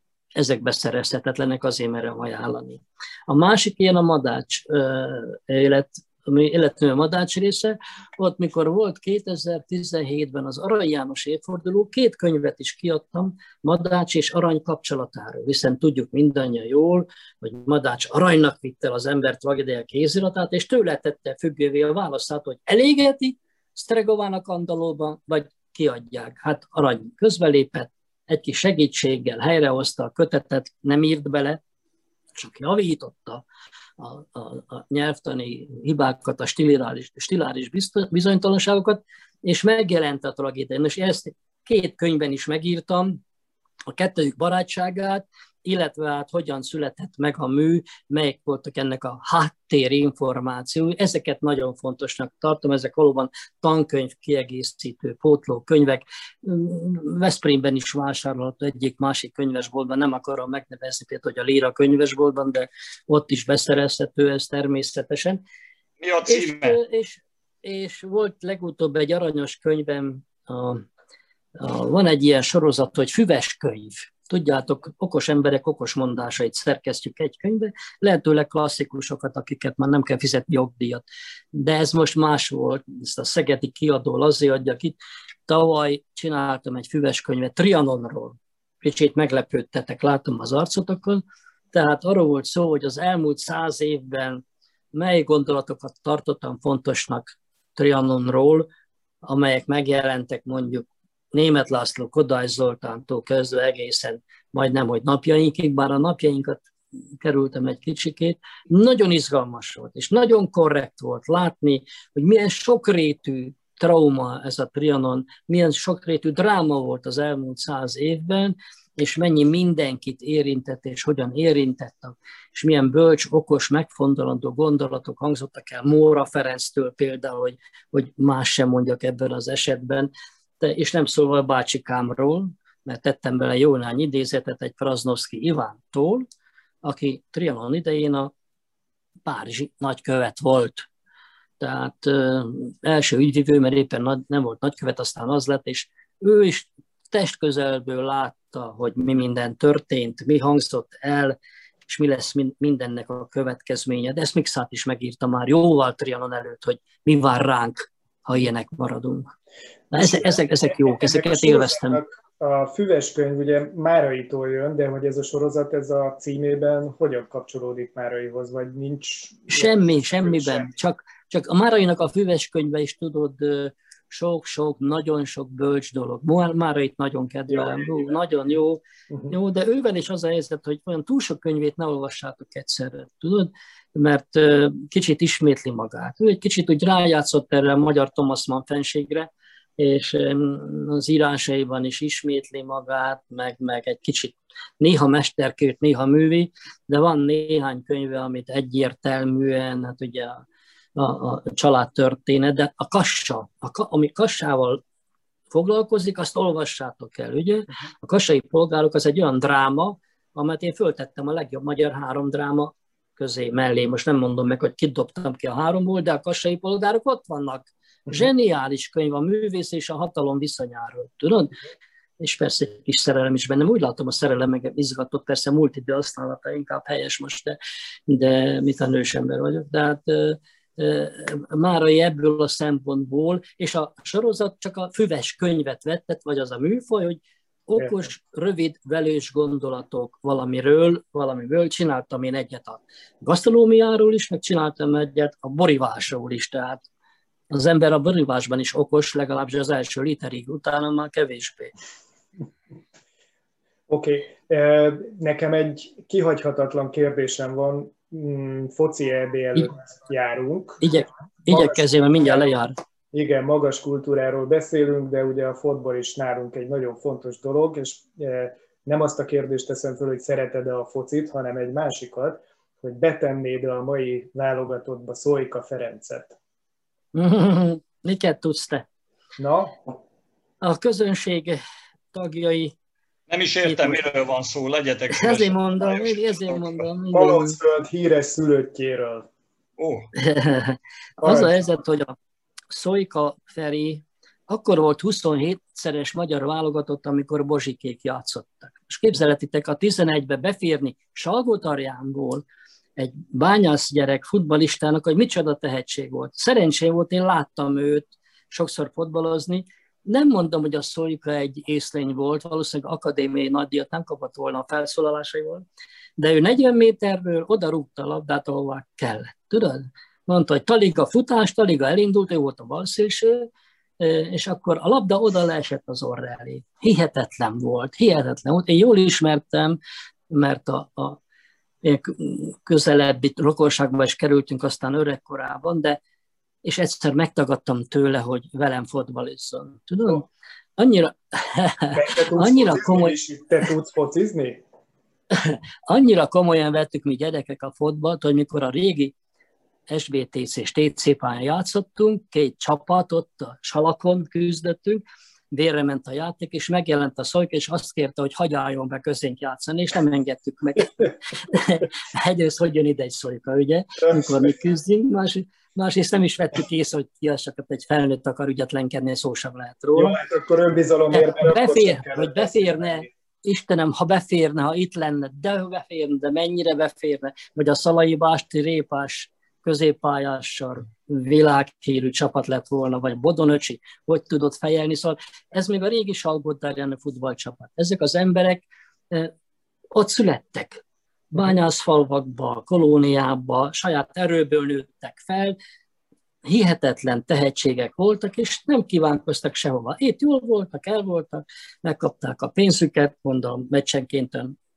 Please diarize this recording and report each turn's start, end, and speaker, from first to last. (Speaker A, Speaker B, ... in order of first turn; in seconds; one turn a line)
Speaker A: 0.4-31.6
Speaker A: 32.4-33.5
Speaker A: 34.0-43.2
Speaker A: 43.9-65.4
Speaker B: 66.0-66.8
Speaker A: 66.3-70.8
Speaker A: 71.6-85.0
Speaker A: 85.5-98.7
Speaker A: 99.2-106.7
Speaker A: 107.2-136.3
Speaker A: 136.8-138.3
Speaker A: 139.2-140.9
Speaker A: 141.6-151.4
Speaker A: 151.9-159.3
Speaker C: 159.9-170.7
Speaker A: 159.9-162.0
Speaker A: 169.5-200.4
Speaker C: 177.5-178.1
Speaker C: 179.1-179.3
Speaker A: 201.0-204.8
Speaker A: 205.5-221.5
Speaker A: 222.2-227.6
Speaker A: 228.1-246.8
Speaker A: 247.5-251.7
Speaker C: 253.9-260.9
Speaker A: 260.8-262.7
Speaker C: 261.5-262.5
Speaker C: 263.1-276.4
Speaker A: 277.1-278.9
Speaker C: 279.4-279.8
Speaker A: 280.6-281.6
Speaker A: 282.1-282.8
Speaker B: 283.3-286.9
Speaker A: 283.6-284.0
Speaker A: 285.1-287.6
Speaker C: 287.1-289.3
Speaker B: 289.8-290.1
Speaker A: 290.2-292.1
Speaker C: 291.2-291.6
Speaker A: 292.7-302.4
Speaker A: 303.0-315.6
Speaker A: 316.2-329.8
Speaker A: 330.3-331.2
Speaker A: 331.8-336.0
Speaker A: 336.6-343.2
Speaker C: 341.9-344.6
Speaker A: 345.3-349.1
Speaker A: 349.9-370.2
Speaker C: 369.9-373.1
Speaker A: 371.1-389.3
Speaker A: 389.9-395.6
Speaker A: 396.4-404.6